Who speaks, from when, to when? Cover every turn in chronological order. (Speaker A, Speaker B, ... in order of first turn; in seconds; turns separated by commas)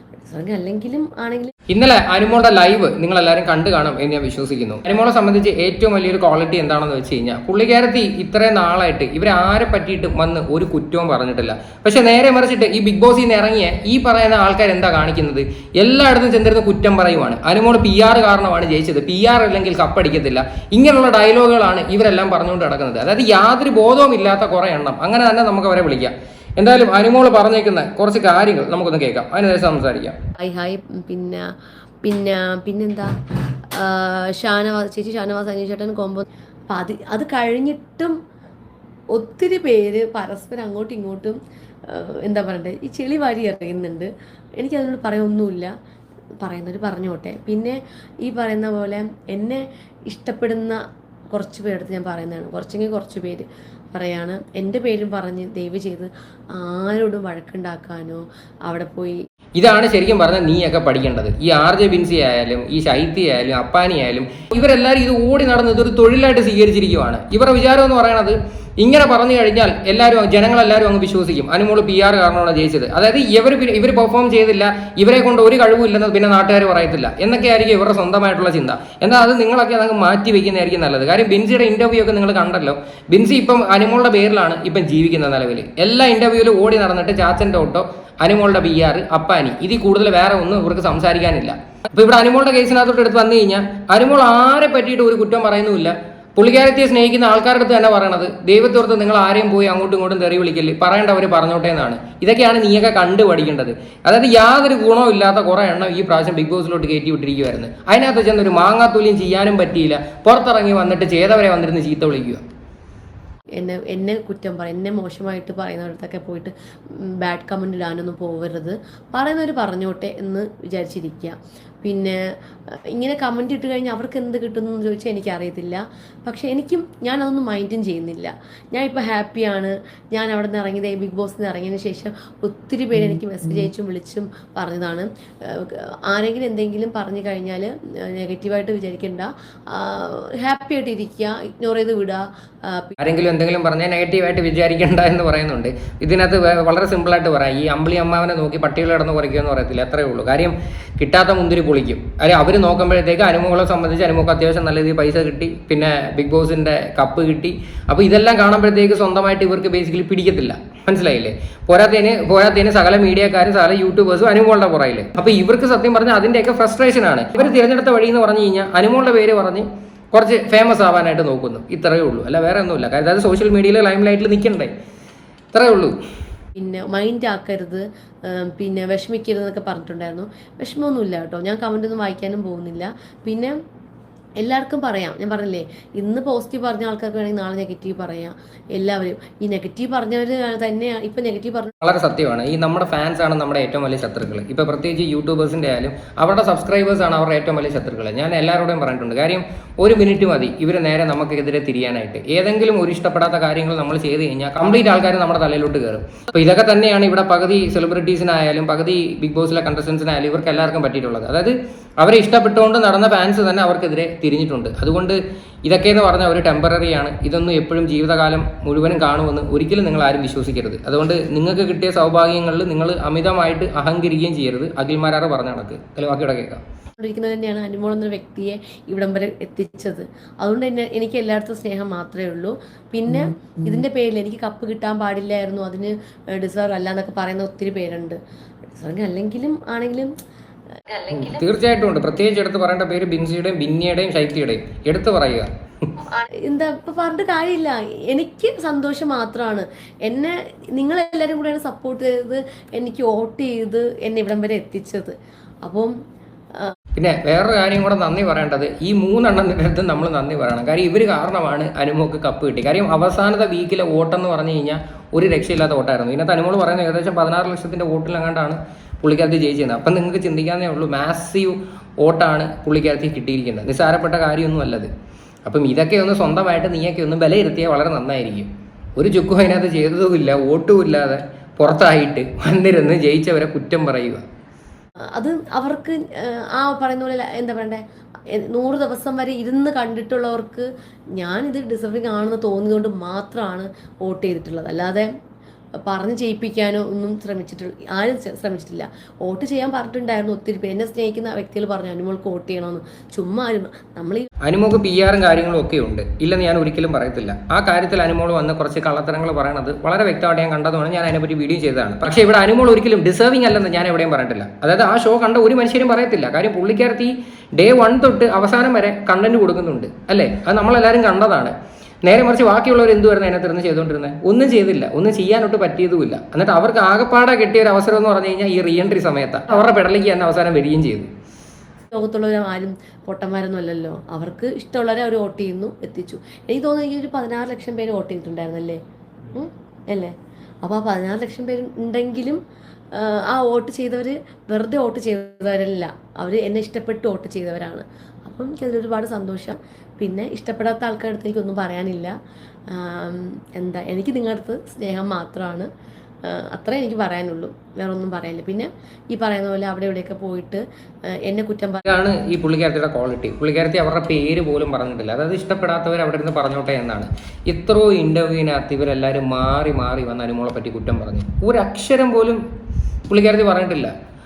Speaker A: 0.2-1.5, Speaker B: 1.7-30.2, Speaker A: 30.4-31.4, Speaker A: 32.0-33.1, Speaker A: 33.8-38.2, Speaker A: 39.1-41.4, Speaker A: 41.9-45.7, Speaker A: 46.4-50.8, Speaker A: 51.3-59.2, Speaker B: 59.6-112.4, Speaker A: 113.6-116.5, Speaker A: 117.1-122.2, Speaker A: 122.9-142.9, Speaker B: 143.0-174.7, Speaker B: 175.5-176.0, Speaker A: 176.6-183.5, Speaker A: 184.4-191.7, Speaker B: 191.8-226.6, Speaker A: 227.0-238.2, Speaker A: 238.7-240.1, Speaker B: 241.1-245.9, Speaker A: 246.1-255.9, Speaker B: 257.0-274.9, Speaker B: 275.5-284.2, Speaker A: 285.2-287.8, Speaker A: 288.3-290.7, Speaker A: 291.2-295.1, Speaker A: 295.8-304.3, Speaker B: 304.4-321.5, Speaker B: 322.1-331.1, Speaker A: 331.9-338.8, Speaker A: 339.3-340.1, Speaker A: 340.6-342.4, Speaker A: 342.9-352.1, Speaker A: 352.7-355.7, Speaker A: 356.3-360.6, Speaker A: 361.2-361.9, Speaker B: 361.9-372.4, Speaker B: 373.1-373.9